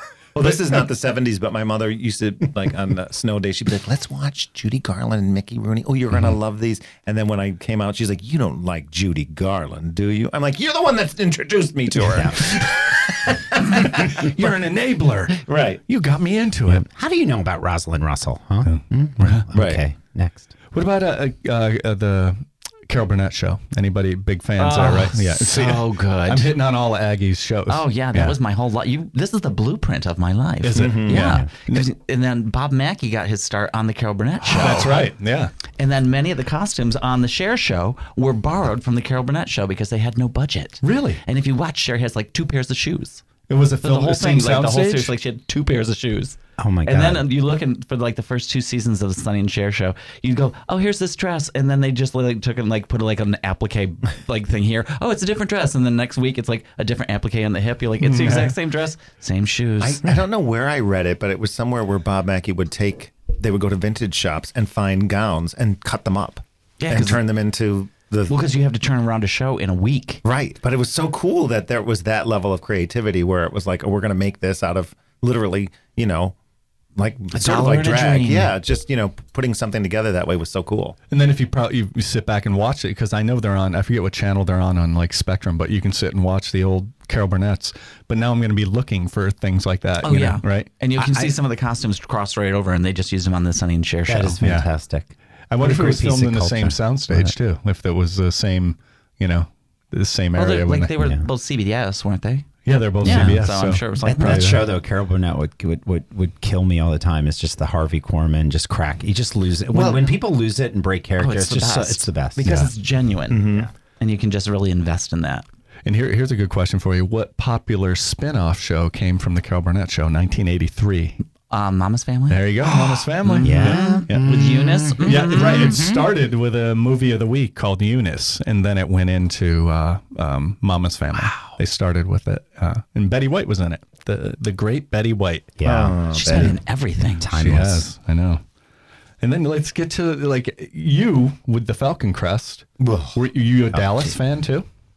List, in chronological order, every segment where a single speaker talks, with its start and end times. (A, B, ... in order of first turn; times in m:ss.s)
0:00.4-0:14.3 A
0:12.1-0:12.5 B
0:13.8-0:16.8 C
0:15.4-0:15.8 A
0:16.7-0:20.5 B
0:18.6-0:19.5 C
0:19.5-0:19.8 A
0:20.7-0:28.4 C
0:24.6-0:26.5 D
0:27.7-0:35.1 D
0:30.6-0:31.9 C
0:30.8-0:31.3 A
0:34.5-0:35.5 C
0:35.8-0:43.2 D
0:40.8-0:41.2 C
0:43.5-0:45.1 C
0:43.8-1:00.0 D
0:46.6-0:47.3 B
0:58.0-0:58.5 C
0:59.8-1:08.3 A
1:06.8-1:07.2 D
1:08.3-1:10.2 D
1:10.2-1:16.4 A
1:17.0-1:21.0 A
1:17.3-1:18.5 D
1:21.1-1:30.7 C
1:30.0-1:34.4 D
1:31.0-1:31.4 B
1:34.1-1:37.3 B
1:34.4-1:34.7 C
1:35.5-1:40.9 C
1:40.3-1:44.5 D
1:41.0-1:41.2 B
1:42.6-1:44.7 C
1:43.0-1:43.5 B
1:44.0-1:52.7 B
1:49.7-1:50.0 A
1:51.2-1:55.4 D
1:53.3-1:53.7 A
1:55.8-2:01.2 C
2:01.5-2:05.8 D
2:02.3-2:04.4 C
2:03.4-2:06.1 B
2:05.0-2:15.5 C
2:11.2-2:11.5 B
2:15.6-2:16.6 B
2:15.6-2:16.6 A
2:16.1-2:17.3 D
2:17.2-2:17.9 B
2:17.3-2:18.4 C
2:19.2-2:24.6 C
2:22.8-2:23.2 A
2:23.7-2:24.1 B